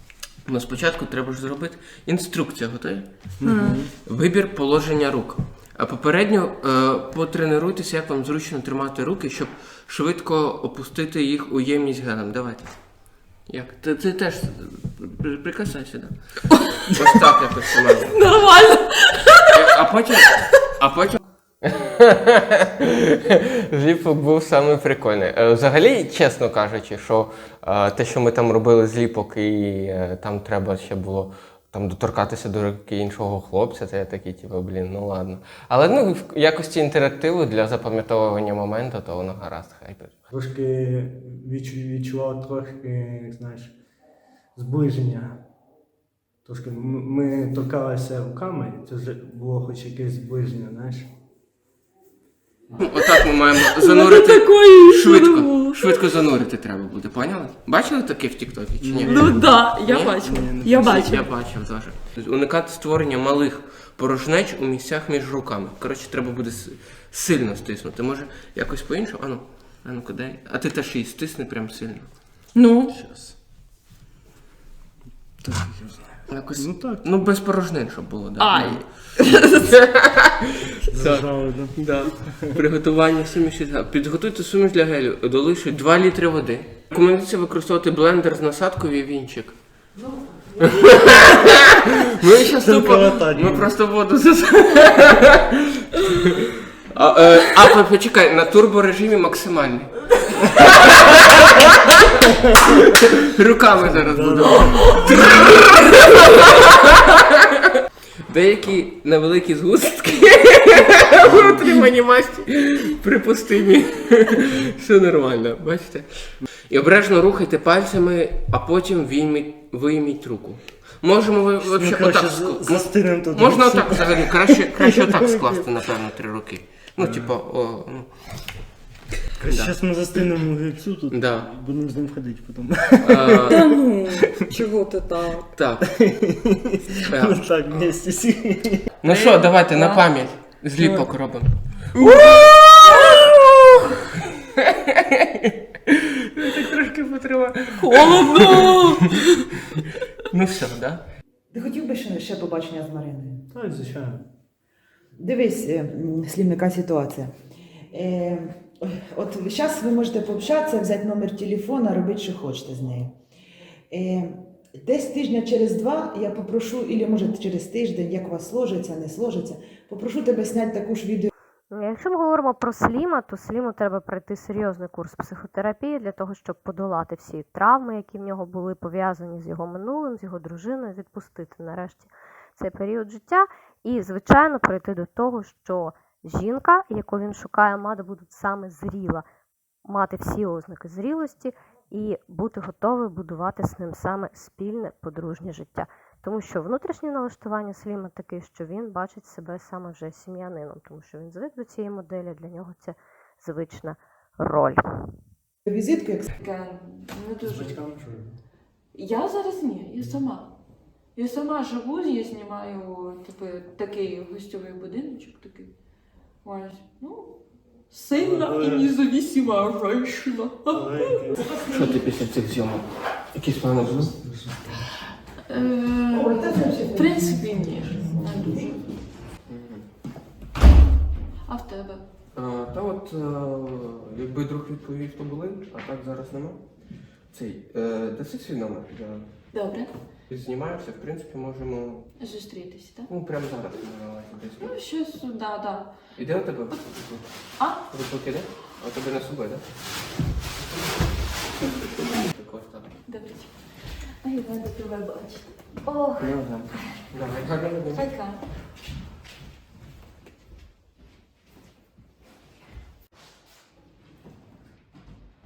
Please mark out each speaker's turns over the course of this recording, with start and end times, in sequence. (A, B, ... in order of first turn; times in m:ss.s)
0:00.4-0:03.3 A
0:03.4-0:03.9 B
0:03.4-0:03.8 C
0:04.0-0:18.2 A
0:16.5-0:17.2 C
0:17.9-0:20.6 C
0:19.5-0:40.2 A
0:40.3-0:43.7 B
0:44.5-0:45.4 B
0:46.4-0:51.1 B
0:52.8-1:12.2 A
0:52.8-0:56.2 C
0:58.8-0:59.5 B
0:59.0-1:01.3 C
1:00.2-1:01.1 B
1:12.5-1:13.0 C
1:12.9-1:13.4 B
1:15.4-1:17.0 B
1:16.3-1:29.6 A
1:18.4-1:19.7 C
1:20.9-1:22.6 B
1:30.0-1:31.2 D
1:30.7-1:35.5 A
1:32.6-1:33.7 B
1:36.1-1:42.1 A
1:43.2-1:47.4 A
1:43.8-1:45.3 B
1:48.3-2:08.1 A
2:01.6-2:05.7 B
2:07.0-2:07.3 B
2:09.4-2:14.4 B
2:09.5-2:09.7 A
2:11.1-2:11.5 A
2:13.0-2:13.6 A
2:13.5-2:15.5 C
2:15.6-2:16.0 A
2:15.8-2:18.9 B
2:17.1-2:17.9 A
2:19.0-2:23.3 A
2:19.0-2:20.1 C
2:20.8-2:21.1 C
2:22.0-2:23.9 C
2:24.9-2:29.0 A
2:27.8-2:29.4 C
2:30.3-2:31.0 A
2:31.5-2:33.4 D
2:33.5-2:34.2 B
2:35.2-2:37.3 D
2:37.9-2:43.1 D
2:43.9-2:51.3 D
2:51.7-3:09.2 E
3:09.8-3:24.8 E
3:25.7-3:26.1 D
3:26.3-3:27.8 C
3:27.4-3:28.3 B
3:28.9-3:30.5 C
3:31.2-3:35.7 C
3:36.4-3:37.4 C
3:37.9-3:41.3 C
3:38.1-3:38.9 B
3:40.7-3:41.4 B
3:41.4-3:42.0 D
3:41.6-3:44.1 A
3:44.2-3:44.6 B
3:45.5-3:48.8 C
3:46.1-3:48.6 D
3:49.5-3:49.8 A
3:51.5-3:52.0 C
3:52.3-3:56.6 A
3:57.3-3:59.3 A
3:59.5-3:59.9 C
4:00.3-4:02.1 A
4:02.2-4:03.1 C
4:03.1-4:04.8 A
4:04.6-4:05.9 C
4:06.1-4:07.2 A
4:07.6-4:07.8 C
4:07.9-4:09.6 A
4:12.2-4:12.9 A
4:13.1-4:13.7 C
4:14.2-4:17.0 C
4:16.2-4:18.0 A
4:17.9-4:18.4 C